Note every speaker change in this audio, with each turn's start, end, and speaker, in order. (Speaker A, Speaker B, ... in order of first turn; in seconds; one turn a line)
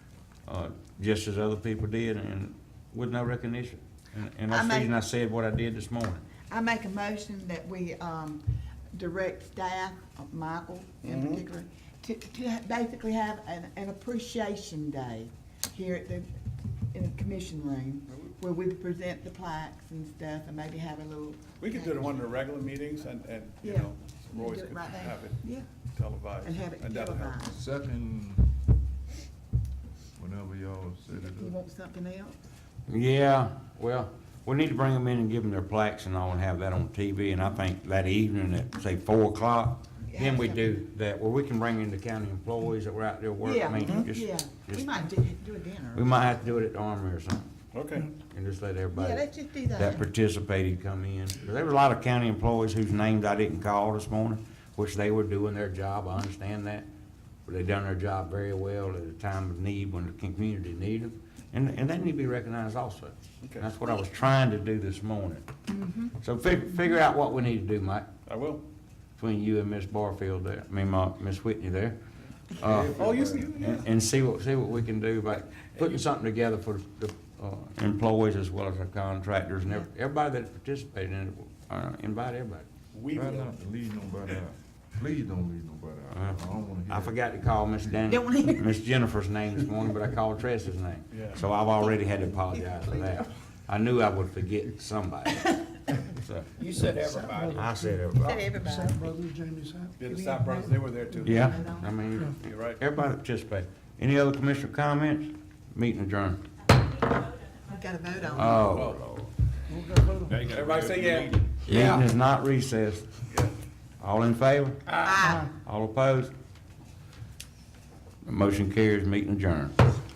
Speaker A: 0.5-6.2
Speaker B: 4.5-4.9
Speaker B: 6.4-16.3
Speaker C: 11.0-11.4
Speaker B: 16.9-22.1
Speaker C: 18.1-18.3
Speaker C: 21.6-27.4
Speaker B: 23.6-25.7
Speaker B: 26.4-27.6
Speaker D: 27.5-28.5
Speaker D: 30.2-31.5
Speaker B: 31.1-32.4
Speaker A: 32.9-44.9
Speaker B: 40.1-40.8
Speaker B: 43.4-46.1
Speaker C: 43.8-44.1
Speaker A: 45.9-47.5
Speaker C: 47.7-48.1
Speaker A: 48.1-49.2
Speaker B: 48.9-50.0
Speaker A: 49.7-56.9
Speaker A: 57.5-65.5
Speaker C: 63.4-63.7
Speaker B: 65.7-66.1
Speaker A: 66.2-68.1
Speaker C: 68.2-68.6
Speaker A: 69.2-72.0
Speaker A: 72.5-82.7
Speaker D: 72.6-73.5
Speaker C: 72.7-73.9
Speaker C: 82.9-83.5
Speaker D: 83.1-87.2
Speaker A: 86.1-96.6
Speaker B: 88.0-88.7
Speaker C: 91.1-91.4
Speaker E: 96.6-97.6
Speaker F: 96.8-97.5
Speaker A: 97.4-98.5
Speaker B: 98.2-99.2
Speaker F: 98.7-99.9
Speaker C: 100.0-102.8
Speaker B: 100.1-101.9
Speaker A: 101.2-106.4
Speaker B: 107.6-108.7
Speaker A: 108.3-109.3
Speaker C: 108.6-109.0
Speaker F: 109.8-110.3
Speaker C: 110.3-111.6
Speaker E: 110.3-112.0
Speaker A: 111.6-113.1
Speaker C: 113.3-113.5
Speaker A: 114.0-116.3
Speaker B: 115.0-115.5
Speaker A: 118.2-119.8